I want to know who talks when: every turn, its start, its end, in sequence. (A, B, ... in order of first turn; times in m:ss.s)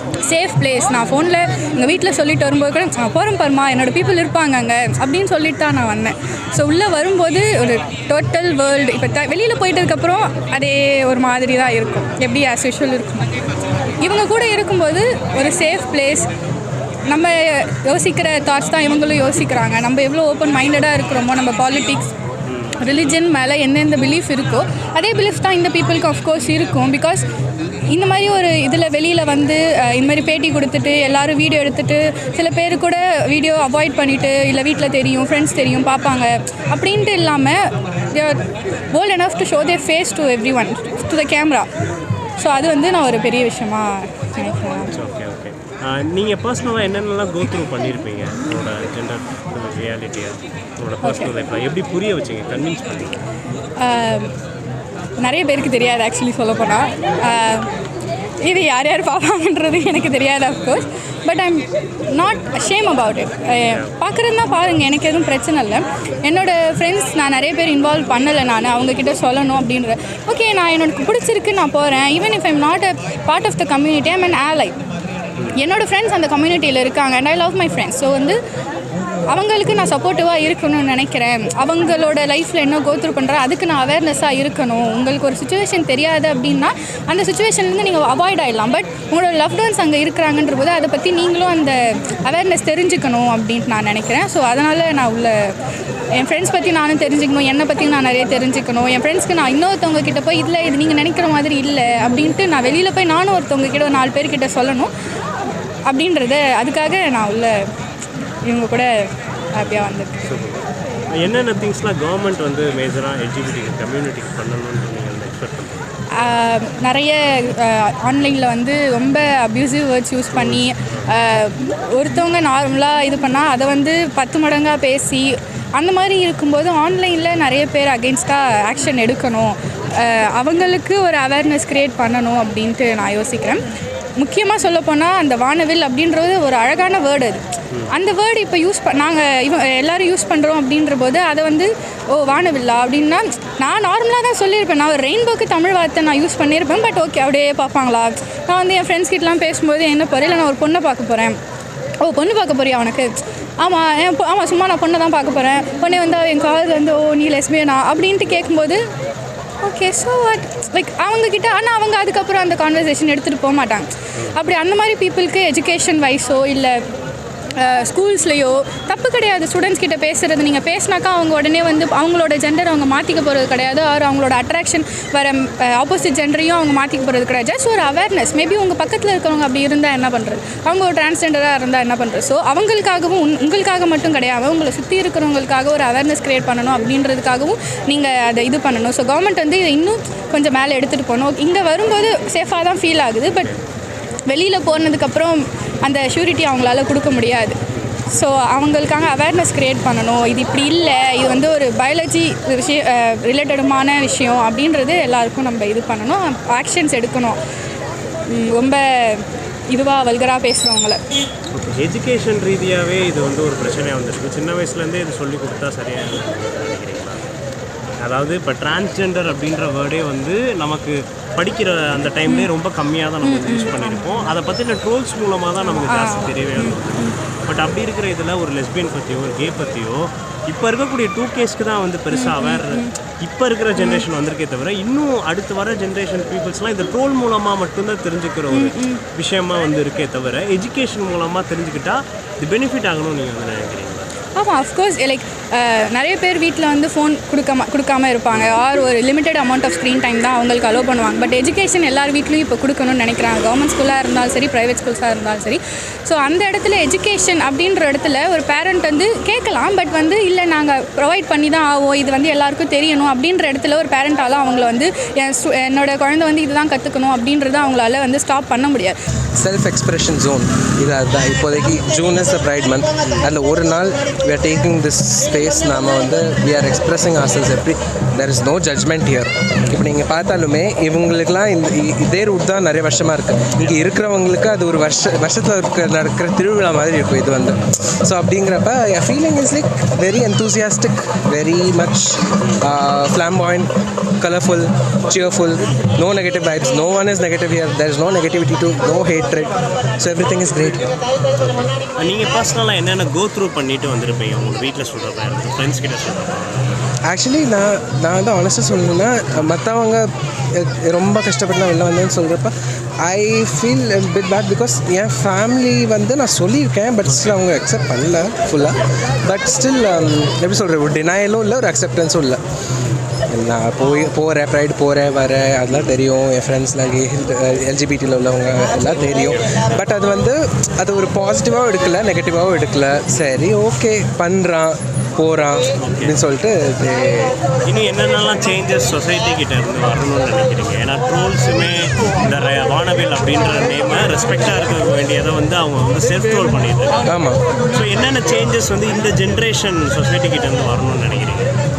0:00.2-0:16.3 A
0:17.1-0:22.1 A
0:22.5-0:22.8 B
0:22.8-0:27.3 A
0:27.9-0:41.7 A
0:42.4-0:45.0 A
0:44.9-0:53.2 B
0:51.0-0:51.3 A
0:53.8-0:54.3 A
0:55.2-0:57.7 A
0:58.4-1:14.8 A
1:15.5-1:18.4 A
1:19.3-1:35.5 A
1:36.1-1:44.9 A
1:45.8-1:47.7 A
1:48.4-1:50.2 A
1:50.2-1:55.8 B
1:56.1-2:31.4 A
2:00.3-2:01.1 B
2:32.0-2:38.8 A
2:39.6-2:46.8 A
2:47.5-3:13.6 A
3:14.3-3:27.4 A
3:28.3-3:31.0 A
3:31.5-3:37.2 B
3:38.0-4:04.1 B
3:43.2-3:44.3 A
3:45.7-3:47.2 A
3:52.1-3:52.9 A
3:53.8-3:54.0 A
3:58.5-3:59.0 A
4:04.4-4:29.0 A
4:29.4-5:00.9 C
4:52.4-4:52.7 B
5:01.3-5:06.8 B
5:07.0-5:22.4 C
5:17.1-5:17.4 B
5:22.8-5:23.0 B
5:23.2-5:37.4 C
5:35.8-5:36.2 B
5:37.6-5:47.0 B
5:47.0-5:47.4 C
5:47.6-5:51.5 B